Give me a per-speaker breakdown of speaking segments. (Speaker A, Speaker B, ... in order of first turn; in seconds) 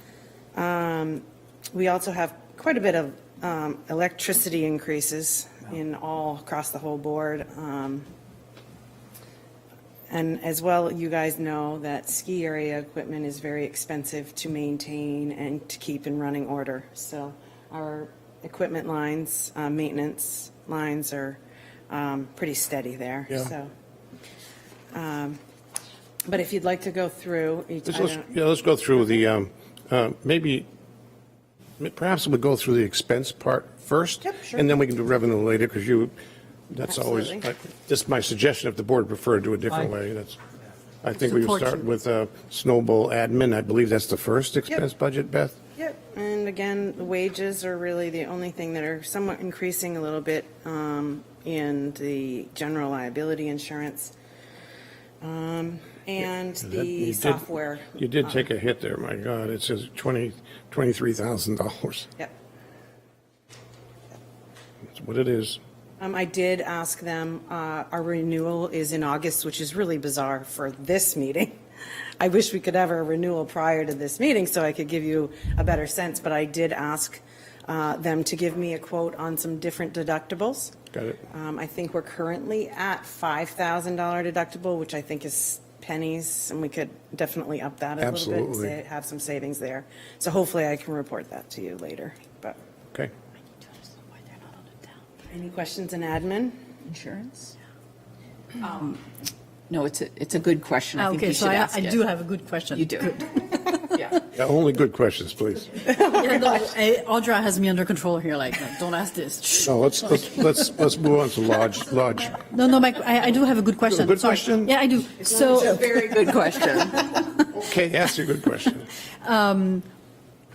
Speaker A: 0.5-8.1, 10.1-23.7, 24.9-25.4, 26.2-28.3, 34.2-34.6, 36.9-37.4, 45.8-54.1, 55.2-58.4, 66.0-71.6, 72.2-80.8, 81.3-92.6, 95.3-96.6
Speaker B: 27.9-30.7, 31.8-36.1, 36.7-40.4, 41.0-45.5, 56.6-62.1, 64.9-65.6, 80.9-81.2, 88.0-88.7, 104.3-105.8, 109.6-112.4, 113.9-114.8, 117.5-118.9
Speaker C: 41.2-41.9, 101.0-104.0, 105.9-110.8, 112.3-117.4, 119.2-119.8
Speaker D: 96.9-97.5, 99.7-102.1, 102.7-104.2, 115.3-117.1